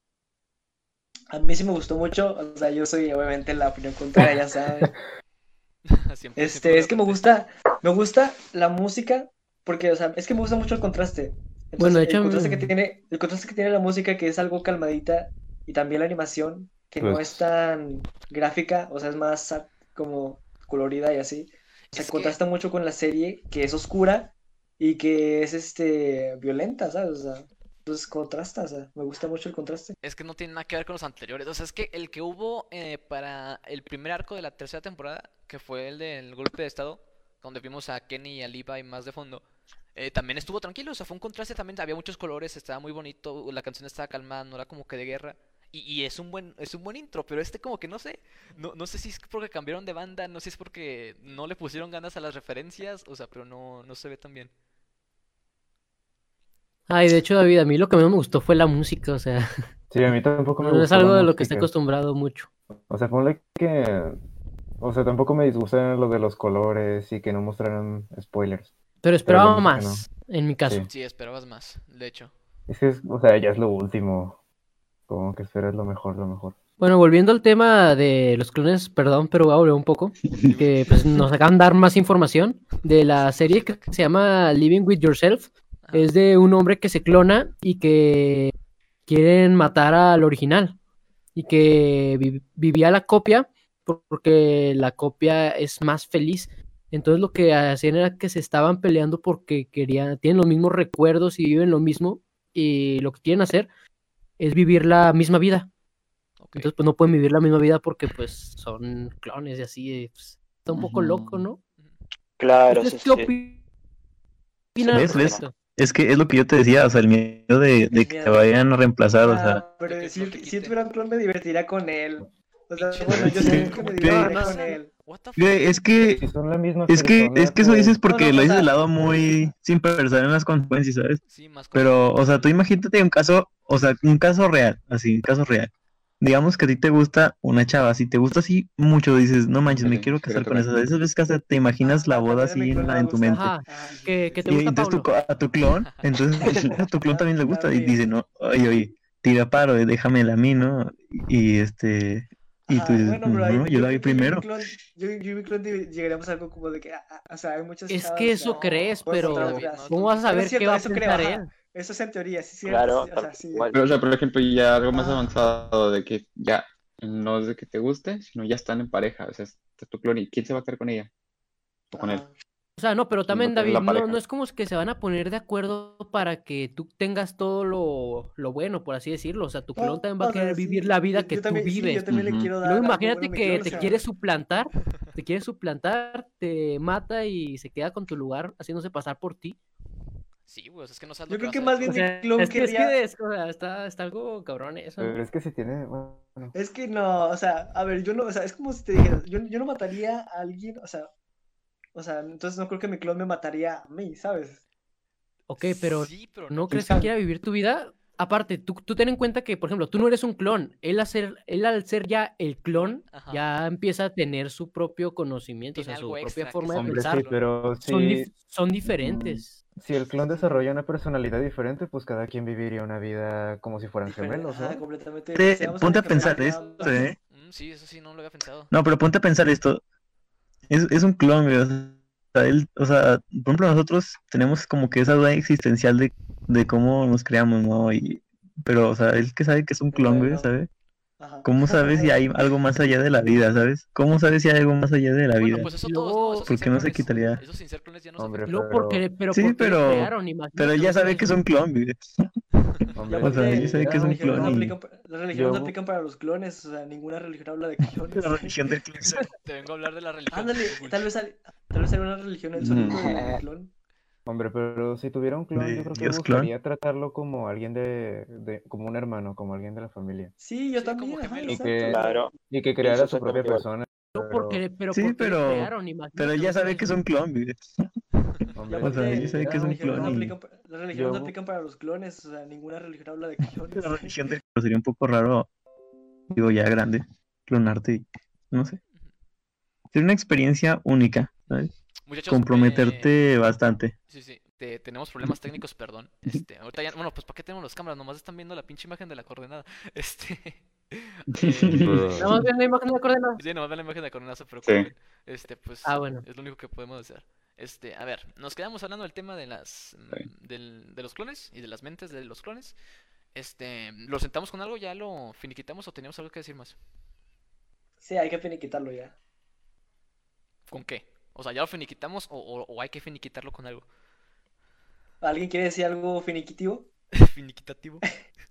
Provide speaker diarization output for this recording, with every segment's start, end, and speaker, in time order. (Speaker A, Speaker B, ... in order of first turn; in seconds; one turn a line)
Speaker A: 1.3-4.9
Speaker B: 5.9-7.3
Speaker A: 6.4-29.9
Speaker C: 11.8-12.7
Speaker D: 17.0-17.4
Speaker B: 21.9-22.4
Speaker B: 30.0-54.5
Speaker C: 56.9-59.5
Speaker D: 59.9-61.7
Speaker C: 60.6-62.5
Speaker D: 62.9-64.2
Speaker D: 64.8-68.7
Speaker C: 69.0-70.8
Speaker D: 69.2-70.1
Speaker D: 70.6-70.9
Speaker B: 70.9-72.3
Speaker D: 72.7-74.4
Speaker D: 75.1-76.6
Speaker C: 76.8-88.5
Speaker B: 80.4-81.2
Speaker B: 82.8-83.9
Speaker B: 85.8-86.1
Speaker C: 89.0-90.8
Speaker C: 91.3-103.7
Speaker C: 104.4-105.7
Speaker B: 106.4-106.7
Speaker C: 106.5-111.6
Speaker E: 112.4-113.3
Speaker C: 112.7-113.6
Speaker C: 114.7-115.5
Speaker F: 114.8-119.6
Speaker E: 114.9-115.4
Speaker A: 117.9-118.5
Speaker A: 119.2-124.9
Speaker B: 119.8-120.8
Speaker B: 122.7-126.1
Speaker F: 123.1-124.3
Speaker C: 123.8-124.8
Speaker F: 125.3-126.2
Speaker D: 126.0-128.0
Speaker F: 126.9-131.2
Speaker A: 128.1-128.7
Speaker B: 131.2-132.5
Speaker F: 131.7-143.6
Speaker G: 139.7-140.7
Speaker A: 141.8-144.5
Speaker C: 143.3-145.1
Speaker B: 143.9-144.3
Speaker F: 144.5-154.5
Speaker A: 147.1-148.0
Speaker A: 152.7-163.7
Speaker C: 157.9-161.5
Speaker B: 158.5-160.4
Speaker E: 162.6-163.8
Speaker G: 163.7-171.1
Speaker A: 164.9-165.4
Speaker G: 171.9-172.2
Speaker A: 171.9-172.3
Speaker C: 172.8-189.6
Speaker G: 173.3-174.2
Speaker A: 179.8-184.0
Speaker G: 182.1-182.5
Speaker B: 183.7-184.0
Speaker B: 190.4-192.0
Speaker A: 191.3-193.0
Speaker C: 191.8-195.2
Speaker D: 195.0-196.5
Speaker A: 196.5-201.1
Speaker A: 201.9-204.6
Speaker C: 205.5-217.3
Speaker B: 205.6-206.8
Speaker A: 206.7-207.1
Speaker B: 212.7-213.4
Speaker B: 215.7-217.4
Speaker D: 216.7-218.3
Speaker C: 217.8-219.6
Speaker D: 218.8-224.8
Speaker A: 224.1-227.0
Speaker F: 225.3-227.2
Speaker B: 227.3-228.7
Speaker F: 228.7-229.8
Speaker F: 230.7-240.7
Speaker A: 239.9-240.5
Speaker A: 241.2-242.2
Speaker F: 241.4-245.7
Speaker B: 245.4-248.6
Speaker C: 245.5-246.5
Speaker F: 246.5-247.4
Speaker D: 248.2-249.0
Speaker C: 248.5-251.4
Speaker F: 249.3-252.3
Speaker D: 252.9-254.6
Speaker A: 253.1-258.6
Speaker F: 253.2-254.7
Speaker D: 255.3-255.7
Speaker F: 258.1-259.3
Speaker B: 259.4-261.1
Speaker A: 260.3-263.7
Speaker G: 262.6-263.4
Speaker E: 263.0-263.4
Speaker D: 264.2-270.3
Speaker F: 265.6-266.5
Speaker A: 270.4-272.2
Speaker B: 270.7-271.7
Speaker D: 271.5-274.6
Speaker E: 271.8-273.6
Speaker C: 274.1-276.9
Speaker F: 274.9-277.9
Speaker D: 278.5-280.2
Speaker A: 278.7-284.2
Speaker F: 278.8-280.3
Speaker D: 280.9-281.3
Speaker F: 283.7-285.5
Speaker F: 286.3-288.8
Speaker F: 289.9-291.7
Speaker B: 292.1-293.1
Speaker F: 292.3-293.9
Speaker B: 294.1-302.1
Speaker G: 301.3-302.3
Speaker D: 301.8-302.3
Speaker C: 302.1-303.4
Speaker B: 303.4-312.8
Speaker G: 304.6-304.9
Speaker C: 305.8-306.2
Speaker B: 313.3-316.8
Speaker A: 318.0-319.1
Speaker B: 320.7-323.9
Speaker A: 325.2-326.9
Speaker B: 327.1-328.1